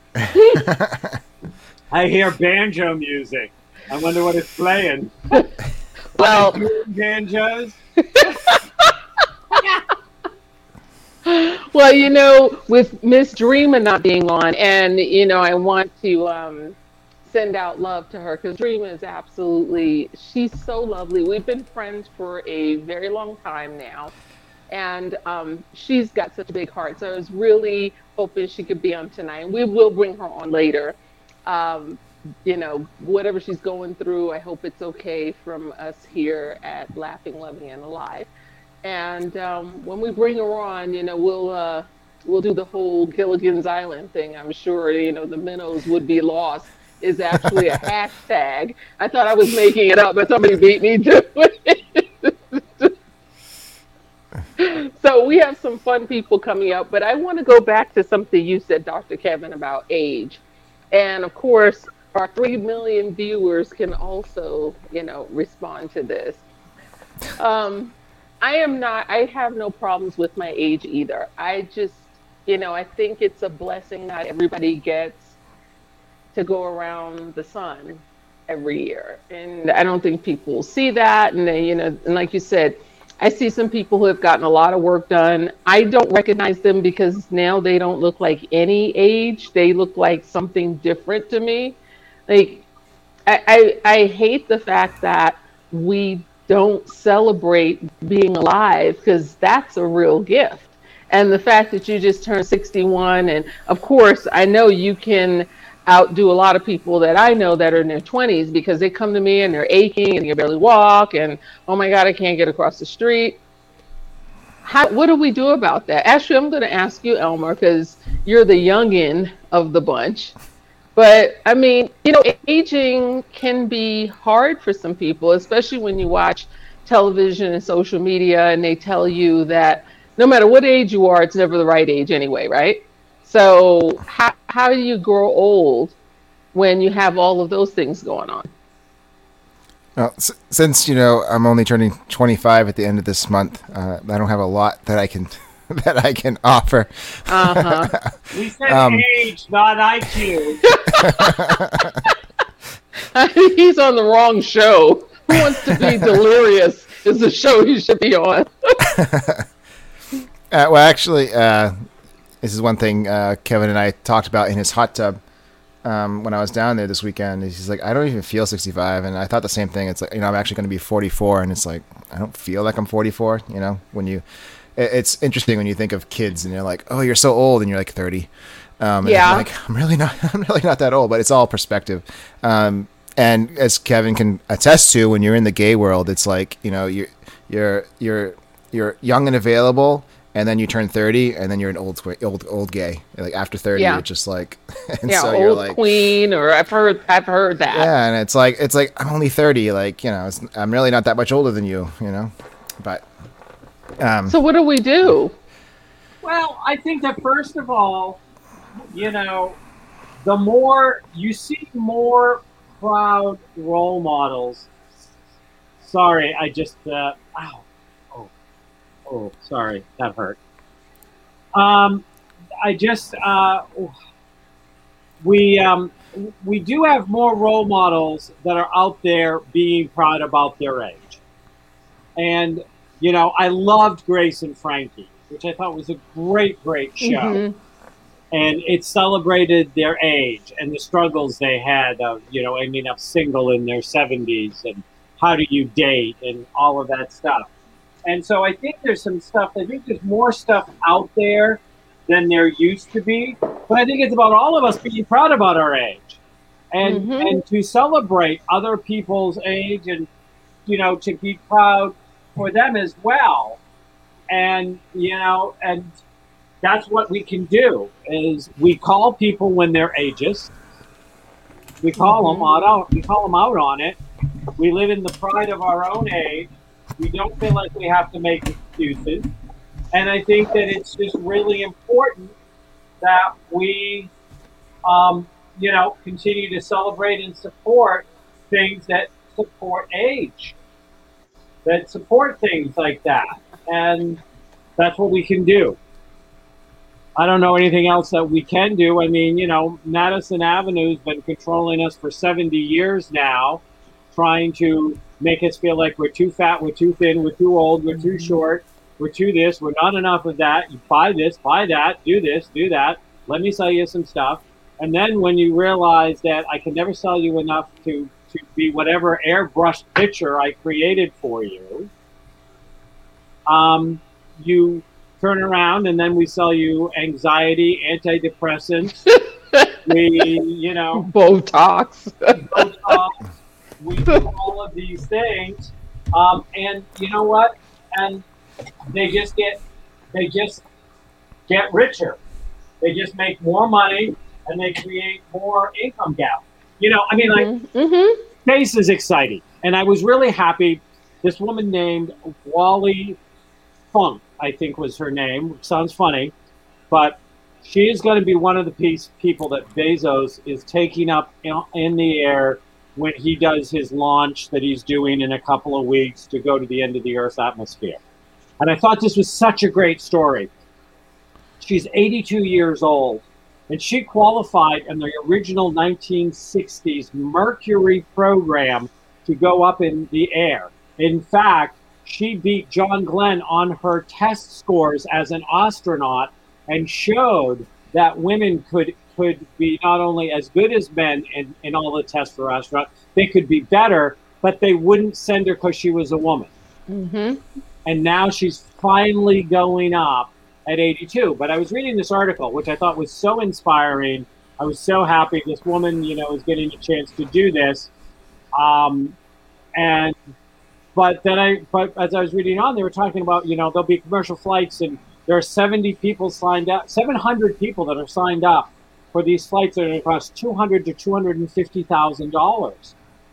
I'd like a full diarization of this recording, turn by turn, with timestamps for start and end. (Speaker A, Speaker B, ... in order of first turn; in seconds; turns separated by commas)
Speaker A: 0.2-1.2, Speaker B: 0.3-0.7, Speaker C: 1.9-5.4, Speaker B: 6.2-6.6, Speaker C: 6.2-7.8, Speaker B: 8.1-8.9, Speaker B: 11.3-24.1, Speaker B: 24.7-38.3, Speaker B: 38.8-52.9, Speaker B: 54.6-60.4, Speaker B: 60.9-66.4, Speaker B: 67.4-75.3, Speaker B: 76.3-92.7, Speaker B: 93.3-113.4, Speaker B: 114.6-120.3, Speaker B: 121.0-135.9, Speaker B: 136.5-138.5, Speaker A: 140.0-149.1, Speaker B: 147.3-147.9, Speaker C: 148.3-150.7, Speaker B: 150.7-151.6, Speaker A: 151.0-151.9, Speaker B: 153.1-158.8, Speaker A: 155.7-156.1, Speaker A: 158.9-159.4, Speaker A: 160.5-161.7, Speaker A: 162.4-165.2, Speaker A: 165.8-174.2, Speaker A: 174.8-195.8, Speaker B: 179.0-179.5, Speaker B: 193.8-194.0, Speaker B: 195.1-197.9, Speaker A: 197.7-203.0, Speaker A: 204.0-204.4, Speaker B: 204.3-205.3, Speaker C: 206.2-208.2, Speaker C: 208.9-209.6, Speaker C: 210.2-214.7, Speaker C: 215.8-218.3, Speaker C: 219.1-220.4, Speaker C: 221.5-222.1, Speaker C: 222.6-223.9, Speaker C: 225.2-231.2, Speaker C: 232.2-237.4, Speaker B: 237.0-237.6, Speaker C: 238.3-247.5, Speaker C: 248.1-256.2, Speaker C: 256.7-260.1, Speaker B: 256.8-257.4, Speaker C: 260.7-263.6, Speaker C: 264.3-265.9, Speaker C: 266.6-270.5, Speaker C: 271.8-274.0, Speaker B: 272.1-272.6, Speaker C: 274.6-279.3, Speaker C: 279.9-282.3, Speaker C: 283.0-284.1, Speaker C: 284.9-290.6, Speaker C: 291.6-294.2, Speaker C: 294.8-295.8, Speaker C: 297.2-303.6, Speaker C: 304.1-321.9, Speaker C: 323.5-329.1, Speaker B: 329.1-329.8, Speaker C: 329.9-331.1, Speaker B: 331.0-333.0, Speaker C: 332.4-333.2, Speaker C: 333.8-338.2, Speaker C: 338.9-339.6, Speaker C: 340.1-340.6, Speaker C: 341.5-342.2, Speaker C: 342.8-347.5, Speaker B: 347.3-348.2, Speaker C: 348.4-353.2, Speaker C: 353.9-356.3, Speaker C: 356.9-368.0, Speaker C: 368.6-370.5, Speaker C: 371.6-396.5, Speaker B: 396.9-397.4, Speaker C: 397.9-407.9, Speaker C: 408.6-409.2, Speaker C: 409.8-410.2, Speaker C: 410.9-422.9